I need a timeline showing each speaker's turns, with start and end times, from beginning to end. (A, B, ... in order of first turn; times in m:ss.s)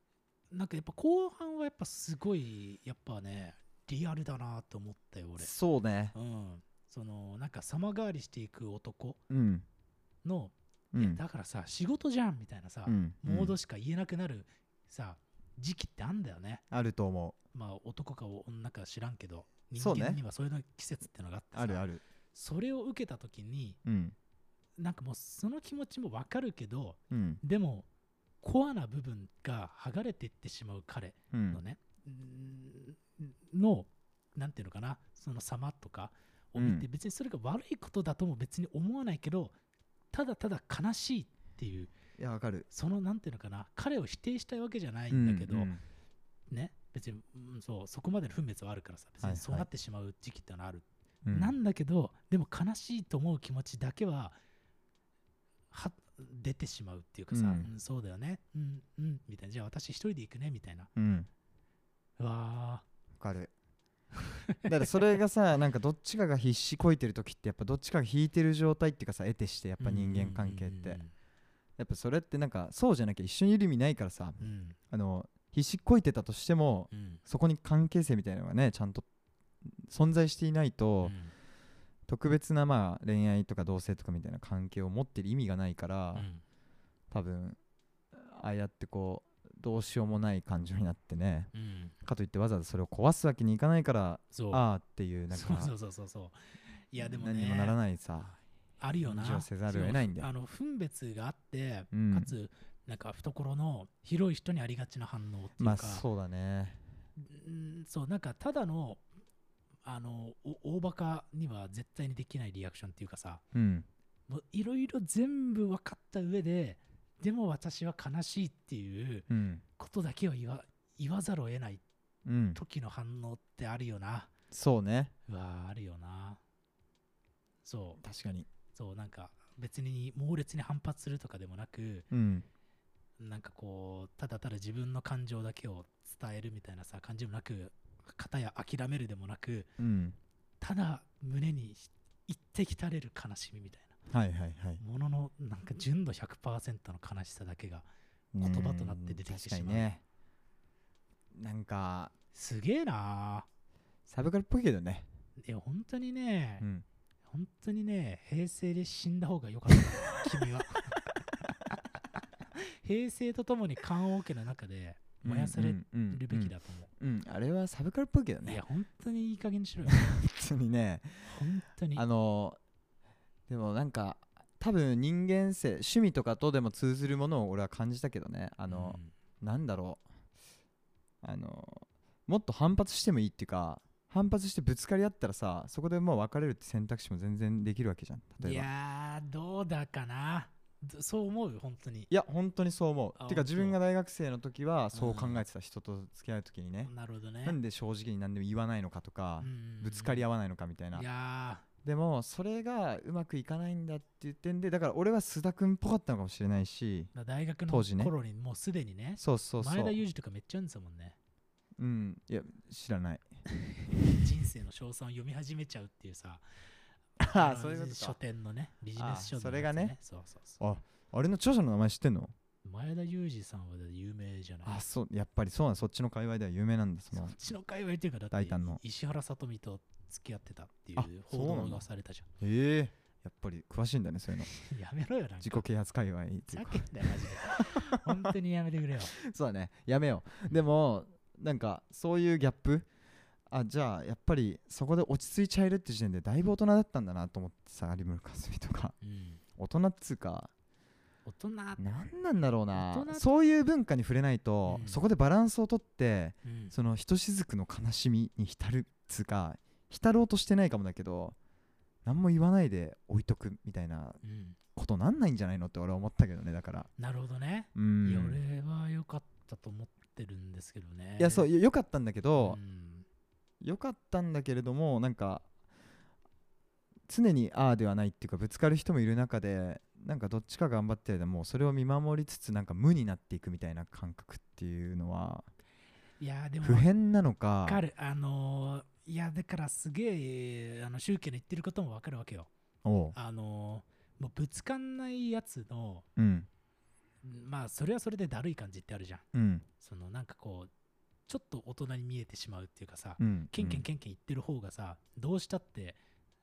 0:00.5-0:05.5 A
0:05.4-0:06.2 B
0:06.1-0:09.2 A
0:09.3-0:09.6 B
0:10.2-0:16.6 A
0:10.9-0:11.2 B
0:12.9-0:13.6 B
0:16.7-0:17.4 B
0:17.5-0:23.8 A
0:19.8-0:20.2 B
0:21.5-0:22.0 B
0:23.8-0:24.2 B
0:24.8-0:27.9 A
0:27.1-0:27.4 B
0:28.4-0:39.6 A
0:31.3-0:31.6 B
0:36.6-0:36.9 B
0:40.1-0:41.9 A
0:42.2-0:42.7 B
0:42.7-0:45.7 A
0:45.1-0:45.8 B
0:46.5-0:54.4 A
0:49.2-0:49.7 B
0:51.2-0:51.6 B
0:55.7-1:00.9 A
0:57.3-0:57.7 B
1:01.0-1:01.3 B
1:02.2-1:02.8 A
1:03.2-1:03.5 B
1:04.2-1:04.7 A
1:04.6-1:11.0 B
1:09.8-1:11.1 A
1:11.8-1:19.0 B
1:14.4-1:14.8 A
1:16.9-1:17.2 A
1:19.7-1:21.2 B
1:21.0-1:21.3 A
1:22.1-1:26.3 B
1:26.2-1:26.4 A
1:27.1-1:27.6 B
1:28.1-1:31.5 B
1:31.5-1:32.0 A
1:32.0-1:35.7 B
1:34.3-1:34.6 A
1:35.3-1:37.8 A
1:37.0-1:38.4 B
1:38.8-1:46.0 A
1:39.0-1:40.3 B
1:41.9-1:42.3 B
1:45.6-1:46.8 B
1:47.2-1:49.0 A
1:49.8-1:53.4 A
1:53.5-1:53.9 B
1:54.3-2:01.8 A
1:59.3-1:59.6 B
2:02.2-2:02.6 B
2:02.5-2:04.3 A
2:04.5-2:05.1 B
2:05.3-2:06.4 A
2:07.6-2:08.0 A
2:08.0-2:08.5 B
2:08.7-2:12.1 A
2:12.1-2:12.5 B
2:13.2-2:19.7 A
2:19.8-2:20.2 B
2:20.6-2:24.0 A
2:24.1-2:24.8 B
2:24.8-2:27.8 A
2:28.3-2:30.0 B
2:28.4-2:29.9 A
2:31.3-2:32.1 B
2:32.3-2:33.5 A
2:34.1-2:35.1 B
2:35.4-2:36.7 A
2:37.3-2:41.0 A
2:42.5-2:46.9 A
2:45.2-2:48.6 B
2:48.4-2:50.1 A
2:49.9-2:51.4 B
2:51.2-2:52.0 A
2:52.0-2:52.6 B
2:53.5-3:00.0 B
2:58.7-2:59.1 A
3:01.2-3:08.7 B
3:08.4-3:12.1 A
3:12.1-3:16.9 B
3:13.2-3:13.8 A
3:14.9-3:15.4 A
3:16.8-3:17.6 A
3:17.4-3:21.1 B
3:19.4-3:20.3 A
3:20.9-3:21.6 A
3:21.8-3:27.1 B
3:27.1-3:31.2 A
3:27.7-3:28.1 B
3:29.2-3:30.0 B
3:31.8-3:33.3 B
3:33.8-3:36.4 A
3:37.2-3:38.2 B
3:37.2-3:40.6 A
3:39.0-3:40.0 B
3:40.6-3:42.3 B
3:42.6-3:44.8 A
3:44.6-3:47.4 B
3:47.1-3:52.3 A
3:48.3-3:48.8 B
3:51.0-3:51.8 B
3:52.4-3:54.5 B
3:54.5-3:55.7 A
3:55.4-3:58.3 B
3:56.5-3:59.2 A
3:59.2-4:02.9 B
4:03.5-4:09.0 B
4:09.0-4:09.4 A
4:09.6-4:10.5 B
4:11.3-4:11.8 A
4:11.8-4:21.4 B
4:12.7-4:13.3 A
4:14.7-4:15.0 A
4:16.4-4:16.7 A
4:22.0-4:24.2 B
4:24.2-4:24.6 A
4:24.8-4:26.9 B
4:27.0-4:31.5 A
4:27.8-4:28.4 B
4:31.2-4:32.6 B
4:32.4-4:33.1 A
4:33.6-4:35.5 B
4:37.1-4:45.5 B
4:46.2-4:46.9 A
4:46.6-4:47.8 B
4:47.7-4:52.5 A
4:52.8-4:53.2 B
4:53.1-4:56.1 A
4:56.2-4:56.5 B
4:57.2-4:59.2 A
4:59.3-4:59.7 B
4:59.8-5:00.7 A
5:01.3-5:06.0 A
5:03.2-5:03.9 B